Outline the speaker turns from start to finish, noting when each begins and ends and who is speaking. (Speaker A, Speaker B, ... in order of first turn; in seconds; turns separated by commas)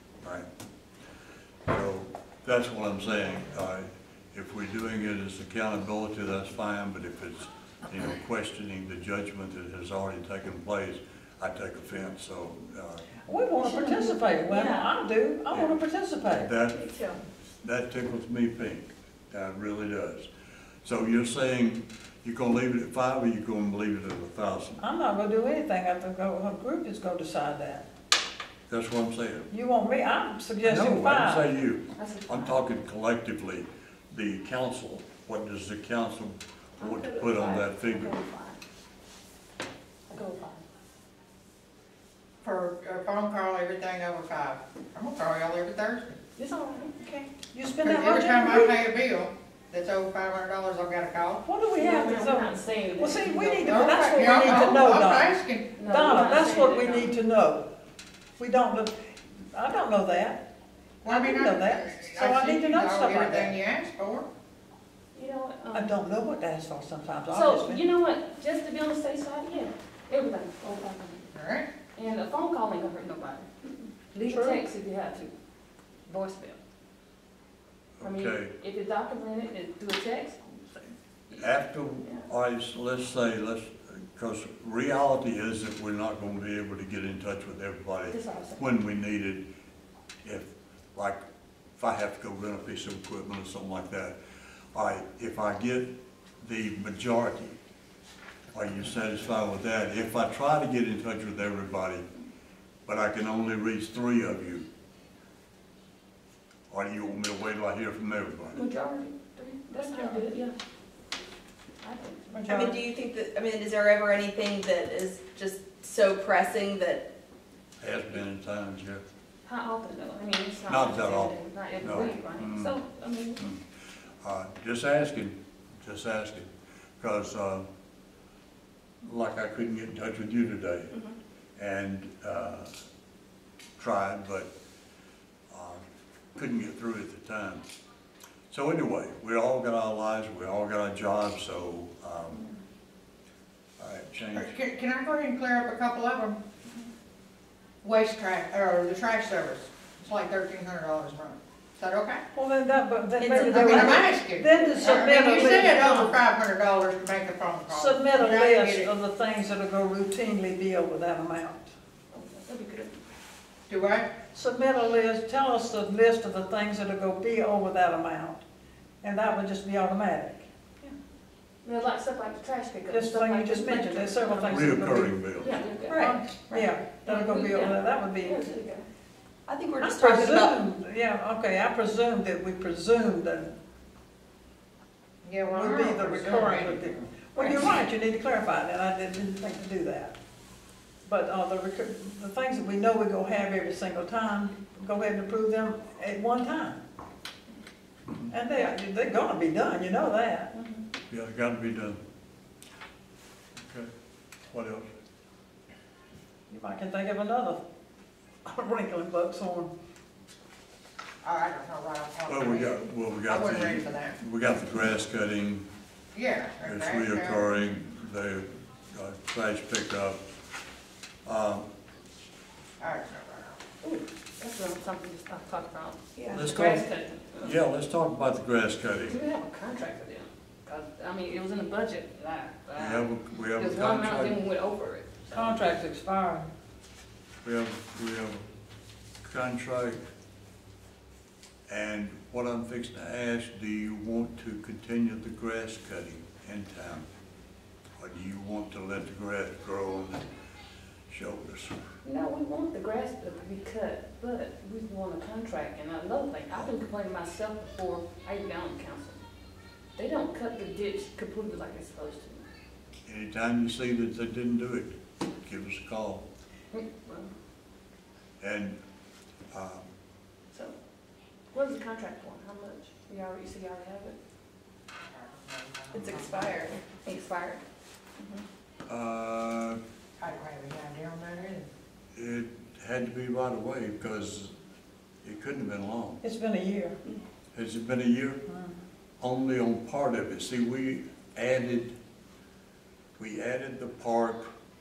Speaker A: 1.7-13.1, Speaker B: 13.2-16.5, Speaker C: 13.6-14.9, Speaker A: 16.3-16.8, Speaker D: 16.7-17.2, Speaker A: 17.6-20.3, Speaker A: 20.8-24.8, Speaker B: 24.8-27.9, Speaker A: 28.7-29.5, Speaker B: 29.5-31.5, Speaker A: 30.6-38.2, Speaker C: 31.9-32.6, Speaker C: 36.8-38.6, Speaker C: 40.1-40.6, Speaker E: 42.4-46.2, Speaker C: 46.4-47.1, Speaker B: 47.5-48.8, Speaker E: 47.8-51.4, Speaker B: 51.4-57.7, Speaker C: 51.7-54.8, Speaker E: 53.6-55.7, Speaker C: 55.7-57.1, Speaker B: 58.4-60.5, Speaker E: 61.0-64.3, Speaker B: 61.0-63.6, Speaker C: 65.1-65.9, Speaker B: 65.7-67.8, Speaker C: 67.3-71.3, Speaker E: 71.3-71.7, Speaker C: 72.0-75.3, Speaker B: 74.2-74.6, Speaker C: 76.1-76.6, Speaker A: 78.0-78.5, Speaker C: 78.0-81.4, Speaker A: 81.3-89.5, Speaker C: 88.1-88.6, Speaker A: 90.2-91.2, Speaker A: 91.8-94.2, Speaker A: 94.7-97.6, Speaker A: 98.5-102.1, Speaker A: 102.9-104.7, Speaker A: 106.7-108.6, Speaker C: 108.5-110.5, Speaker B: 109.7-110.4, Speaker C: 111.8-112.4, Speaker B: 112.3-112.8, Speaker D: 112.4-117.1, Speaker A: 117.8-119.0, Speaker C: 119.5-123.5, Speaker A: 120.7-122.8, Speaker A: 124.2-126.5, Speaker A: 127.0-127.7, Speaker A: 129.0-130.9, Speaker A: 131.6-132.7, Speaker A: 133.8-134.5, Speaker A: 135.5-135.8, Speaker A: 136.3-137.6, Speaker A: 138.5-142.4, Speaker A: 143.8-144.5, Speaker E: 144.3-146.4, Speaker E: 147.8-152.2, Speaker B: 152.3-156.2, Speaker D: 153.2-154.1, Speaker E: 153.4-158.9, Speaker B: 157.7-161.7, Speaker C: 162.1-163.0, Speaker E: 163.7-164.1, Speaker B: 164.3-168.4, Speaker B: 169.0-170.5, Speaker C: 171.6-178.8, Speaker B: 172.9-175.2, Speaker A: 174.4-175.6, Speaker B: 175.9-178.5, Speaker D: 179.5-180.6, Speaker B: 179.8-183.6, Speaker E: 185.2-187.5, Speaker B: 185.5-190.1, Speaker B: 191.1-196.8, Speaker B: 198.3-200.5, Speaker C: 200.5-200.8, Speaker A: 201.1-202.0, Speaker A: 203.6-203.9, Speaker A: 204.5-204.9, Speaker B: 206.5-207.6, Speaker B: 208.4-209.7, Speaker E: 211.2-214.2, Speaker A: 212.3-215.7, Speaker E: 216.1-217.5, Speaker A: 216.6-220.2, Speaker A: 221.2-221.7, Speaker E: 222.8-223.6, Speaker C: 223.8-227.5, Speaker A: 226.3-229.2, Speaker C: 229.1-235.6, Speaker A: 232.8-234.4, Speaker B: 235.3-236.5, Speaker A: 237.4-238.4, Speaker A: 239.2-240.0, Speaker A: 241.7-247.1, Speaker A: 248.0-250.3, Speaker A: 251.1-251.8, Speaker C: 252.0-259.2, Speaker C: 259.9-262.4, Speaker A: 263.1-266.2, Speaker C: 266.7-267.3, Speaker A: 268.4-268.8, Speaker A: 269.5-269.9, Speaker C: 271.5-274.2, Speaker E: 275.1-276.7, Speaker D: 275.9-277.6, Speaker A: 278.9-279.8, Speaker E: 280.2-281.7, Speaker A: 282.1-284.5, Speaker A: 285.2-286.2, Speaker B: 286.2-287.0, Speaker A: 287.5-288.4, Speaker A: 289.2-291.9, Speaker A: 293.2-294.5